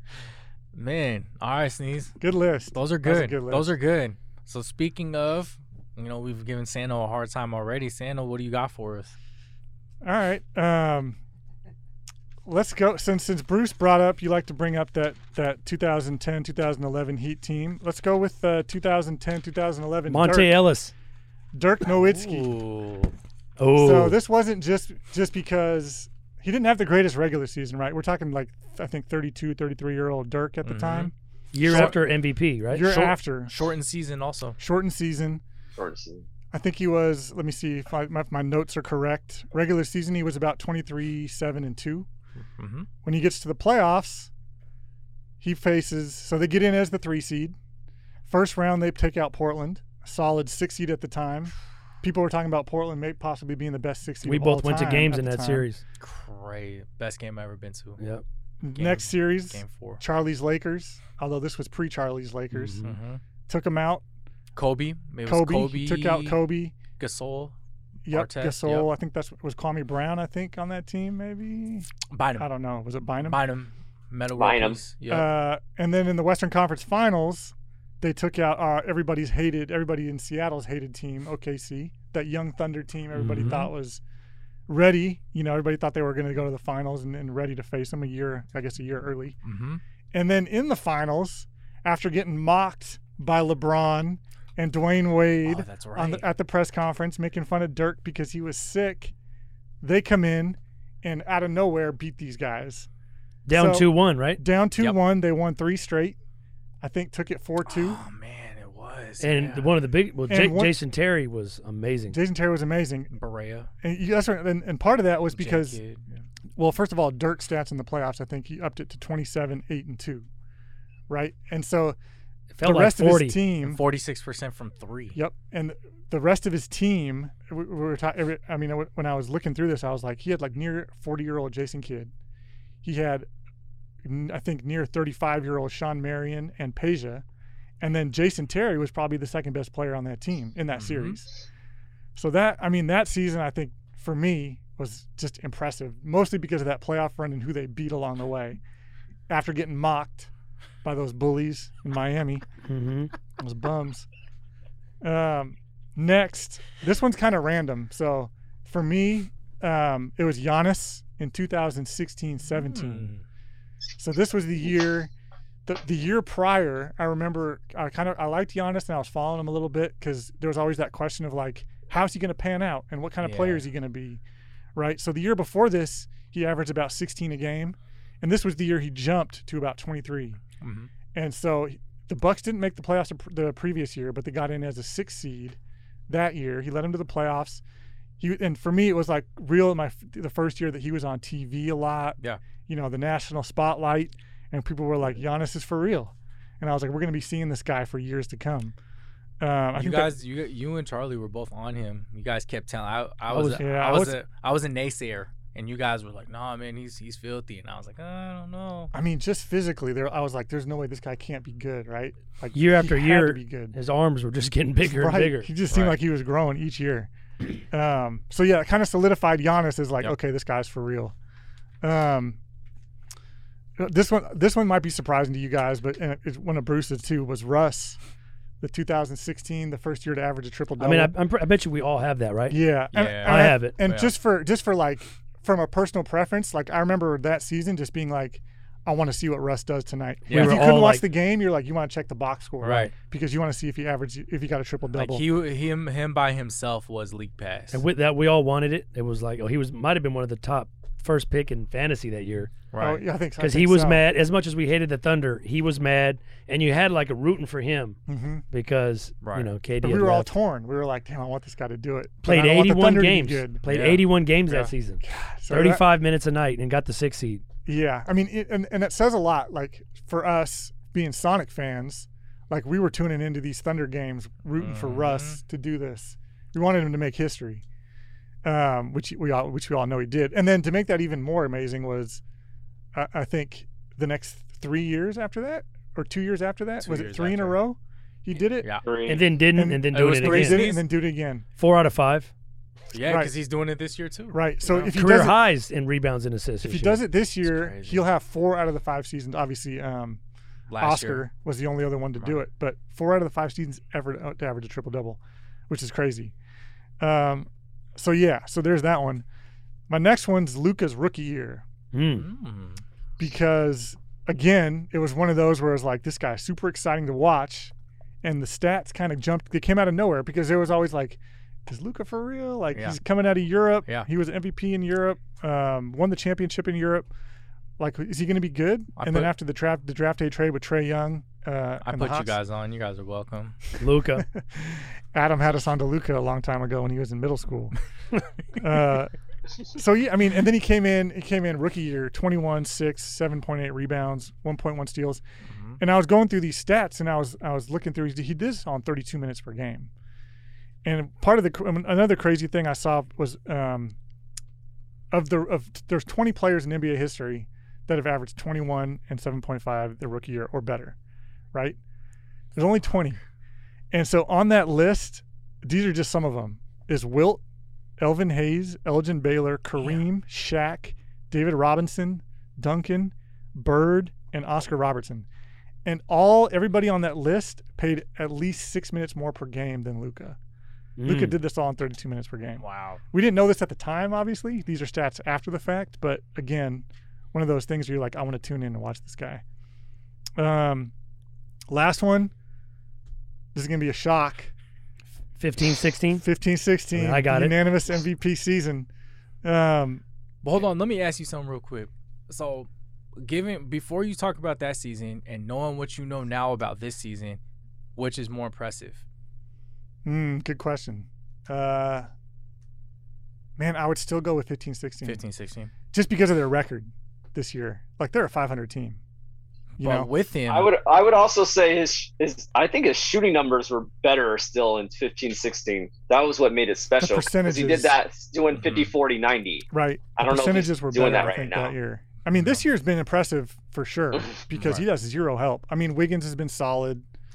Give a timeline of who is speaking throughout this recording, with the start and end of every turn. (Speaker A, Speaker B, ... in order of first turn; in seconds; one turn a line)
Speaker A: 0.7-2.2
Speaker B: 2.2-3.7
Speaker A: 2.7-9.2
Speaker B: 10.0-11.2
Speaker B: 12.4-20.6
Speaker C: 20.1-20.9
Speaker B: 21.5-22.5
Speaker A: 21.9-23.1
Speaker C: 23.6-24.2
Speaker B: 23.8-32.0
Speaker A: 30.6-31.1
Speaker C: 31.5-33.1
Speaker A: 31.6-31.9
Speaker B: 32.7-33.5
Speaker A: 32.9-34.6
Speaker B: 34.6-35.4
Speaker D: 35.8-36.2
Speaker B: 36.5-42.1
Speaker A: 42.6-42.9
Speaker B: 43.0-44.3
Speaker B: 45.4-47.5
Speaker B: 48.3-55.7
Speaker C: 54.2-55.8
Speaker A: 56.0-58.0
Speaker B: 58.6-62.8
Speaker A: 58.7-60.0
Speaker C: 62.5-62.9
Speaker A: 62.8-63.2
Speaker B: 63.5-64.0
Speaker A: 64.5-66.4
Speaker B: 65.2-66.8
Speaker A: 67.0-67.5
Speaker B: 68.0-73.4
Speaker A: 68.1-68.9
Speaker A: 72.1-72.5
Speaker A: 73.2-75.3
Speaker D: 74.3-74.8
Speaker B: 75.1-84.0
Speaker C: 83.1-83.6
Speaker A: 83.3-83.7
Speaker B: 84.7-89.4
Speaker A: 89.4-89.8
Speaker B: 90.1-99.1
Speaker A: 95.4-96.2
Speaker B: 99.8-102.9
Speaker C: 103.5-104.4
Speaker B: 103.5-106.2
Speaker B: 106.8-108.0
Speaker A: 107.7-109.7
Speaker C: 109.2-112.2
Speaker B: 110.3-110.8
Speaker B: 112.1-113.1
Speaker A: 113.1-113.7
Speaker B: 113.8-115.8
Speaker A: 115.3-116.2
Speaker B: 116.5-120.3
Speaker B: 121.1-122.0
Speaker C: 122.5-123.4
Speaker B: 122.6-123.8
Speaker A: 123.6-125.2
Speaker B: 125.1-132.1
Speaker B: 132.8-133.3
Speaker B: 134.0-137.2
Speaker B: 137.8-141.3
Speaker A: 140.8-141.2
Speaker B: 142.2-148.6
Speaker B: 149.3-150.3
Speaker B: 150.8-152.4
Speaker C: 152.7-153.1
Speaker B: 153.4-154.1
Speaker B: 155.0-163.1
Speaker A: 162.5-163.2
Speaker B: 164.0-165.1
Speaker B: 165.7-174.2
Speaker A: 173.2-173.6
Speaker B: 174.8-180.4
Speaker A: 180.6-180.9
Speaker B: 181.1-185.6
Speaker B: 186.1-187.6
Speaker B: 188.2-198.7
Speaker B: 199.4-200.1
Speaker A: 199.7-208.9
Speaker C: 203.3-203.6
Speaker B: 203.6-204.2
Speaker B: 208.9-213.8
Speaker C: 212.5-215.5
Speaker B: 214.8-221.1
Speaker A: 215.7-216.0
Speaker B: 221.8-222.4
Speaker B: 223.8-228.0
Speaker B: 228.6-231.1
Speaker C: 230.8-232.6
Speaker B: 232.5-245.2
Speaker A: 232.9-234.1
Speaker C: 233.2-233.8
Speaker A: 240.3-240.6
Speaker C: 240.3-241.1
Speaker A: 242.6-242.9
Speaker A: 244.9-247.8
Speaker C: 247.7-252.5
Speaker A: 252.7-253.0
Speaker B: 252.8-254.0
Speaker C: 253.4-258.0
Speaker B: 258.1-258.4
Speaker C: 258.5-260.3
Speaker A: 259.2-259.5
Speaker B: 259.8-263.6
Speaker C: 262.2-267.4
Speaker A: 263.7-264.7
Speaker B: 265.0-265.9
Speaker B: 267.6-277.6
Speaker A: 274.6-275.4
Speaker B: 278.4-282.2
Speaker B: 282.9-288.7
Speaker A: 286.8-287.6
Speaker D: 288.8-289.2
Speaker C: 289.1-290.7
Speaker B: 289.5-291.4
Speaker A: 289.9-290.9
Speaker C: 291.6-292.3
Speaker A: 292.9-294.8
Speaker B: 293.0-293.3
Speaker B: 294.3-295.4
Speaker C: 294.8-297.0
Speaker B: 296.6-300.2
Speaker A: 297.4-298.0
Speaker A: 300.7-301.2
Speaker B: 300.8-306.3
Speaker B: 307.0-309.2
Speaker B: 309.9-311.6
Speaker C: 311.9-312.3
Speaker A: 312.1-312.8
Speaker B: 313.2-327.1
Speaker B: 327.8-332.4
Speaker A: 328.9-329.3
Speaker A: 331.8-333.7
Speaker C: 333.8-334.3
Speaker B: 334.3-337.7
Speaker B: 338.6-339.1
Speaker B: 339.7-345.2
Speaker A: 345.5-345.8
Speaker B: 345.8-349.9
Speaker B: 350.8-353.9
Speaker B: 355.1-360.9
Speaker B: 361.5-361.8
Speaker B: 362.5-363.2
Speaker B: 363.9-367.4
Speaker B: 368.0-375.3
Speaker B: 375.8-380.4
Speaker C: 381.0-381.4
Speaker B: 381.0-389.4
Speaker A: 382.6-383.0
Speaker B: 390.4-390.9
Speaker B: 391.7-392.3
Speaker B: 393.5-394.5
Speaker C: 395.4-396.2
Speaker B: 396.2-398.9
Speaker C: 396.9-397.5
Speaker B: 399.4-400.0
Speaker A: 400.4-407.4
Speaker A: 407.9-409.0
Speaker B: 410.0-412.1
Speaker B: 413.6-415.2
Speaker A: 415.0-415.7
Speaker B: 415.9-419.0
Speaker A: 419.8-420.7
Speaker B: 419.8-420.1
Speaker D: 420.5-431.7
Speaker B: 427.0-427.9
Speaker A: 428.5-428.9
Speaker B: 429.7-437.1
Speaker A: 432.3-432.6
Speaker A: 434.5-434.8